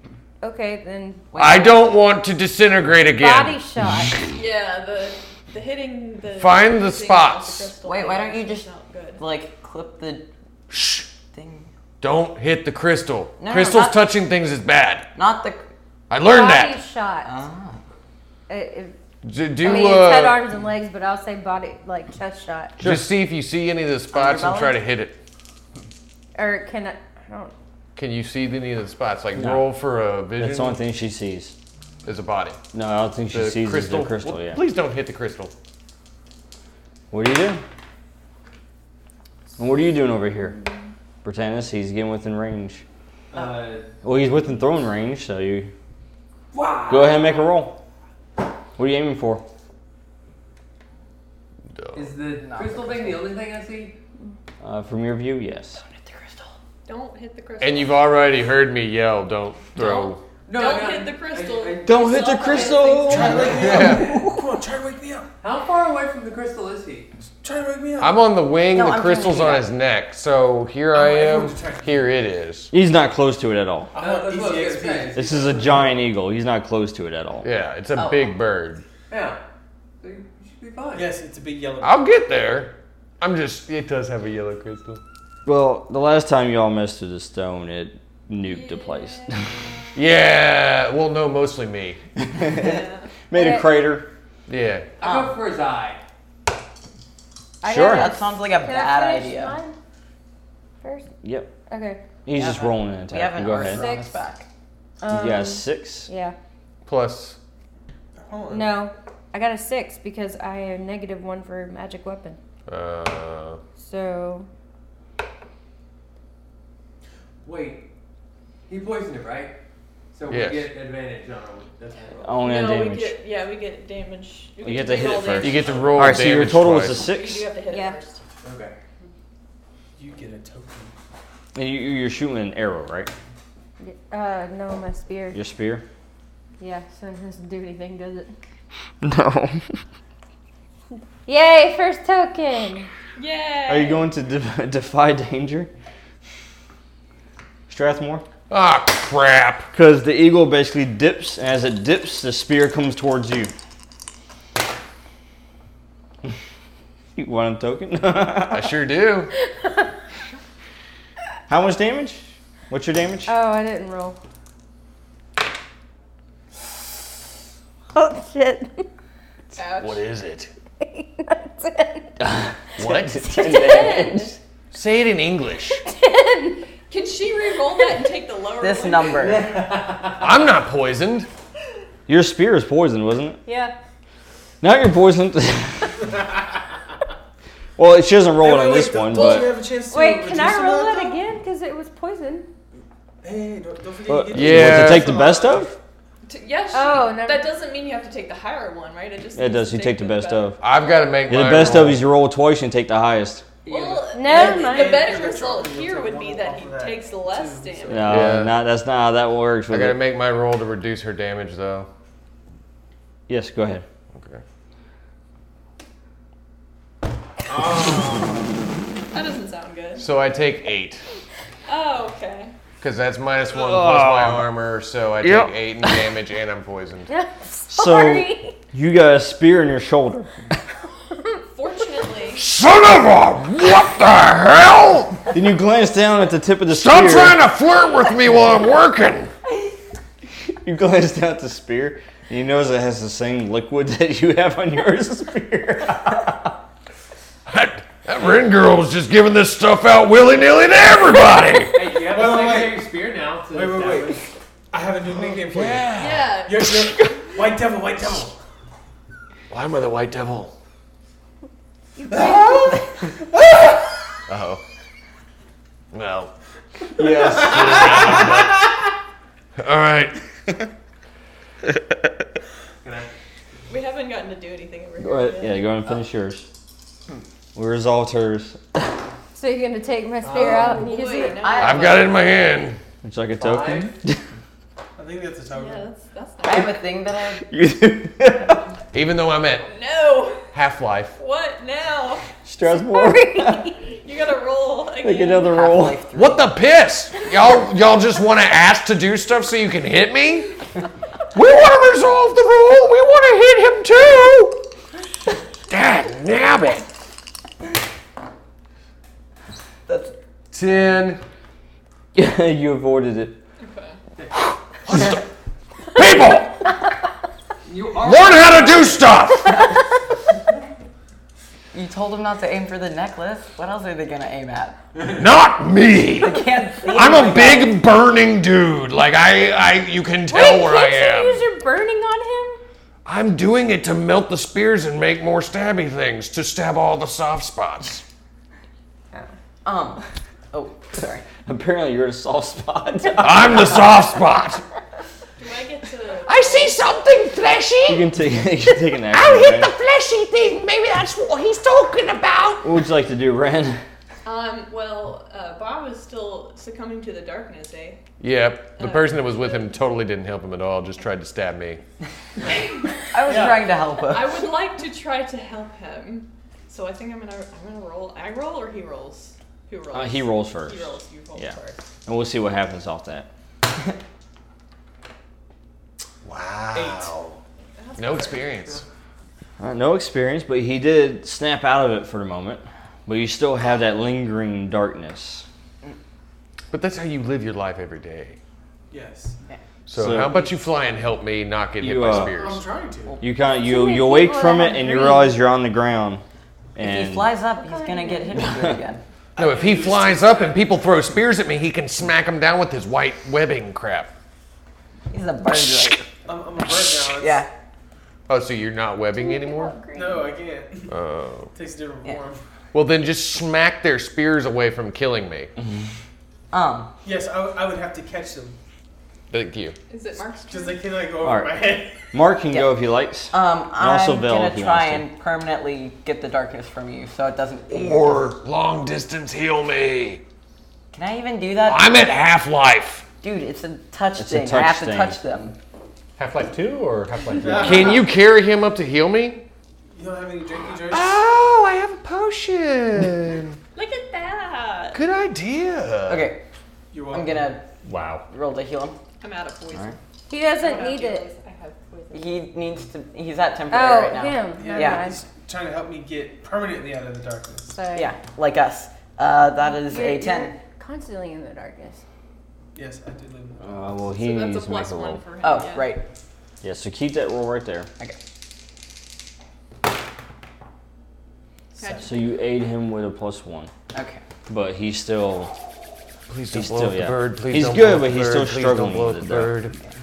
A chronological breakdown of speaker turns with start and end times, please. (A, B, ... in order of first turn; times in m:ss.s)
0:00.4-0:01.3 A
0:01.3-0:01.9 B
0:01.4-0:03.6 C
0:03.2-0:04.1 A
0:04.3-0:09.2 D
0:06.3-0:07.7 C
0:07.8-0:10.3 B
0:10.7-0:11.1 C
0:11.3-0:11.7 B
0:12.0-0:15.1 C
0:13.4-0:14.1 B
0:15.2-0:15.7 B
0:16.1-0:16.8 C
0:16.2-0:17.3 A
0:17.2-0:17.8 B
0:18.5-0:18.9 A
0:19.2-0:20.4 C
0:19.6-0:22.8 A
0:22.8-0:23.1 E
0:22.8-0:25.2 C
0:24.1-0:24.8 B
0:26.4-0:27.5 A
0:28.0-0:30.8 C
0:29.3-0:29.7 E
0:30.4-0:31.6 E
0:32.0-0:32.6 C
0:32.7-0:34.6 E
0:33.3-0:35.5 C
0:37.1-0:37.6 E
0:39.6-0:40.6 E
0:41.2-0:42.8 E
0:43.3-0:43.9 F
0:44.0-0:45.7 E
0:46.5-0:47.6 F
0:46.9-0:47.8 E
0:48.8-0:49.4 E
0:51.7-0:52.0 C
0:51.9-0:54.0 F
0:52.4-0:53.3 B
0:54.6-0:55.8 E
0:55.8-0:56.5 B
0:56.8-0:58.1 D
0:57.6-1:00.2 C
0:59.7-1:00.2 E
1:00.4-1:04.3 F
1:00.5-1:03.4 D
1:01.8-1:03.6 E
1:03.0-1:05.3 G
1:03.6-1:04.1 C
1:05.4-1:07.1 F
1:07.4-1:08.3 G
1:08.0-1:12.7 C
1:08.7-1:09.7 B
1:10.9-1:12.1 G
1:12.7-1:13.9 E
1:13.9-1:15.8 G
1:13.9-1:15.9 F
1:15.1-1:17.5 E
1:17.4-1:18.8 C
1:17.9-1:18.4 B
1:19.1-1:19.4 F
1:20.0-1:21.1 F
1:20.9-1:22.0 G
1:21.8-1:25.0 C
1:25.4-1:29.7 E
1:28.4-1:29.3 D
1:29.9-1:32.0 C
1:32.3-1:34.1 E
1:32.5-1:33.1 D
1:33.3-1:33.7 A
1:34.5-1:34.9 C
1:35.0-1:36.0 F
1:35.0-1:35.4 B
1:37.6-1:39.8 A
1:37.6-1:38.1 E
1:37.8-1:39.5 B
1:40.8-1:41.1 A
1:41.2-1:41.5 E
1:41.7-1:42.0 A
1:42.2-1:43.8 E
1:42.3-1:44.5 B
1:43.5-1:44.1 A
1:45.0-1:46.3 A
1:45.1-1:46.1 E
1:46.8-1:47.4 C
1:48.2-1:48.9 G
1:48.5-1:52.4 A
1:52.7-1:53.6 C
1:53.8-1:54.5 A
1:57.4-1:57.9 F
1:58.7-1:59.6 F
2:00.1-2:02.4 F
2:00.3-2:00.7 C
2:02.2-2:03.2 E
2:02.4-2:05.8 D
2:04.6-2:07.5 E
2:05.4-2:07.1 C
2:05.7-2:06.1 F
2:07.0-2:08.2 D
2:07.7-2:08.0 A
2:08.4-2:08.8 F
2:10.0-2:10.9 G
2:11.5-2:13.1 E
2:13.8-2:15.4 A
2:15.3-2:15.8 E
2:16.6-2:18.4 A
2:19.0-2:19.8 E
2:21.2-2:22.9 A
2:23.2-2:24.1 D
2:23.7-2:25.7 E
2:27.7-2:28.2 E
2:28.5-2:29.7 C
2:29.7-2:33.5 E
2:37.2-2:38.7 E
2:38.5-2:39.3 C
2:41.5-2:43.3 E
2:43.3-2:44.2 A
2:47.9-2:48.8 A
2:49.5-2:50.0 D
2:49.7-2:50.5 C
2:50.8-2:52.1 A
2:52.2-2:54.3 E
2:52.8-2:53.2 C
2:53.3-2:54.3 A
2:53.4-2:54.3 D
2:54.7-2:55.8 C
2:55.9-2:56.6 A
2:56.9-2:59.3 D
2:58.6-2:59.5 B
2:59.2-3:00.2 F
3:00.2-3:01.3 C
3:02.1-3:03.4 E
3:03.4-3:03.7 A
3:04.6-3:06.0 E
3:07.8-3:09.5 E
3:08.4-3:11.2 G
3:09.1-3:09.5 D
3:09.9-3:12.5 A
3:13.2-3:15.8 G
3:14.1-3:15.8 E
3:14.3-3:15.2 C
3:16.3-3:21.2 D
3:16.7-3:17.5 A
3:19.3-3:20.6 E
3:20.6-3:22.0 C
3:21.3-3:23.4 E
3:23.6-3:24.2 F
3:23.6-3:28.2 D
3:24.1-3:25.0 A
3:24.2-3:28.1 G
3:27.9-3:30.0 E
3:28.0-3:28.6 C
3:29.7-3:31.9 C
3:33.3-3:33.8 E
3:34.1-3:34.4 C
3:37.5-3:38.3 G
3:39.1-3:40.1 D
3:40.0-3:41.0 C
3:41.7-3:42.5 D
3:42.8-3:47.1 C
3:43.5-3:44.5 E
3:45.2-3:46.1 E
3:47.1-3:48.6 A
3:47.7-3:50.3 E
3:51.5-3:52.4 D
3:52.3-3:55.2 C
3:55.3-3:57.4 E
3:56.8-3:59.3 C
4:00.6-4:06.4 E
4:07.5-4:11.8 C
4:11.7-4:14.2 F
4:12.0-4:12.9 G
4:13.5-4:18.4 G
4:15.2-4:17.2 C
4:16.0-4:16.6 D
4:19.5-4:20.5 C
4:22.0-4:22.8 A
4:22.1-4:22.4 G
4:24.3-4:24.6 C
4:25.9-4:26.3 C
4:27.0-4:28.4 E
4:27.0-4:28.7 C
4:29.6-4:30.2 C
4:32.8-4:33.1 F
4:33.7-4:35.7 D
4:35.0-4:36.5 E
4:37.5-4:38.9 E
4:39.3-4:41.4 A
4:40.2-4:40.8 F
4:40.3-4:42.0 D
4:40.3-4:42.3 B
4:41.6-4:42.8 C
4:43.0-4:44.2 E
4:43.4-4:44.0 F
4:45.0-4:45.9 G
4:45.5-4:46.8 D
4:46.4-4:47.5 B
4:47.4-4:48.6 E
4:48.9-4:49.6 C
4:49.6-4:50.5 D
4:50.5-4:51.2 C
4:51.2-4:52.2 D
4:52.4-4:53.7 E
4:52.6-4:53.8 A
4:54.0-4:55.6 D
4:55.0-4:56.0 E
4:55.4-4:56.6 B
4:56.1-5:00.5 C
5:01.3-5:04.6 C
5:05.7-5:06.8 C
5:09.9-5:10.1 B
5:10.5-5:11.2 C
5:12.1-5:13.4 E
5:13.6-5:14.0 D
5:14.8-5:15.2 C
5:15.9-5:16.6 C
5:17.6-5:19.1 F
5:18.0-5:19.7 C
5:21.7-5:24.8 B
5:25.1-5:31.4 C
5:26.1-5:27.8 B
5:30.3-5:32.6 A
5:33.0-5:38.0 C
5:39.6-5:41.2 B
5:41.4-5:43.8 E
5:43.2-5:44.6 C
5:45.4-5:46.8 D
5:46.2-5:48.1 C
5:47.8-5:49.7 E
5:48.9-5:52.7 C
5:52.6-5:53.8 E
5:54.2-5:58.0 D
5:58.2-6:01.8 C
5:58.8-5:59.7 D
6:02.4-6:11.8 D
6:03.1-6:04.5 B
6:03.2-6:03.7 G
6:09.9-6:13.3 E
6:16.2-6:17.4 C
6:16.7-6:17.1 G
6:17.8-6:18.5 D
6:18.0-6:18.8 C
6:19.6-6:25.4 E
6:26.7-6:28.4 C
6:28.9-6:29.4 G
6:29.9-6:32.6 C
6:29.9-6:30.5 E
6:31.8-6:32.4 E
6:32.1-6:33.2 G
6:33.2-6:36.2 E
6:33.6-6:35.4 A
6:36.8-6:37.3 E
6:36.8-6:39.0 B
6:37.6-6:38.4 A
6:38.3-6:38.8 E
6:39.4-6:44.1 C
6:39.4-6:40.7 G
6:45.1-6:46.1 B
6:46.2-6:47.4 G
6:47.0-6:47.5 B
6:48.3-6:49.8 C
6:49.1-6:50.3 A
6:49.9-6:51.0 G
6:50.9-6:51.5 C
6:51.5-6:52.4 G
6:52.7-6:55.5 C
6:56.5-6:56.9 B
6:57.0-6:58.6 G
6:59.3-6:59.8 C
6:59.9-7:00.9 D
7:00.4-7:02.1 G
7:01.2-7:01.6 E
7:02.1-7:05.1 E
7:03.3-7:08.3 B
7:07.7-7:10.2 C
7:10.9-7:11.9 B
7:11.6-7:13.0 C
7:13.2-7:15.6 B
7:14.2-7:15.2 E
7:16.2-7:18.0 H
7:17.3-7:18.1 G
7:17.6-7:19.4 C
7:19.9-7:21.2 G
7:20.9-7:23.6 C
7:23.7-7:25.0 D
7:24.9-7:26.3 C
7:26.1-7:26.4 B
7:26.9-7:27.5 G
7:27.1-7:27.6 B
7:27.8-7:28.2 H
7:28.3-7:29.0 B
7:29.2-7:32.4 D
7:30.3-7:31.2 A
7:32.1-7:35.1 B
7:33.7-7:35.2 A
7:34.6-7:37.8 G
7:37.7-7:38.1 A
7:37.9-7:40.5 B
7:39.6-7:42.0 A
7:42.7-7:43.9 G
7:43.6-7:45.2 E
7:44.2-7:46.0 D
7:45.4-7:46.0 B
7:46.6-7:47.9 E
7:51.8-7:52.2 D
7:52.0-7:53.7 E
7:53.9-7:54.2 B
7:54.5-7:55.5 E
7:56.3-7:59.8 C
7:56.5-7:59.5 E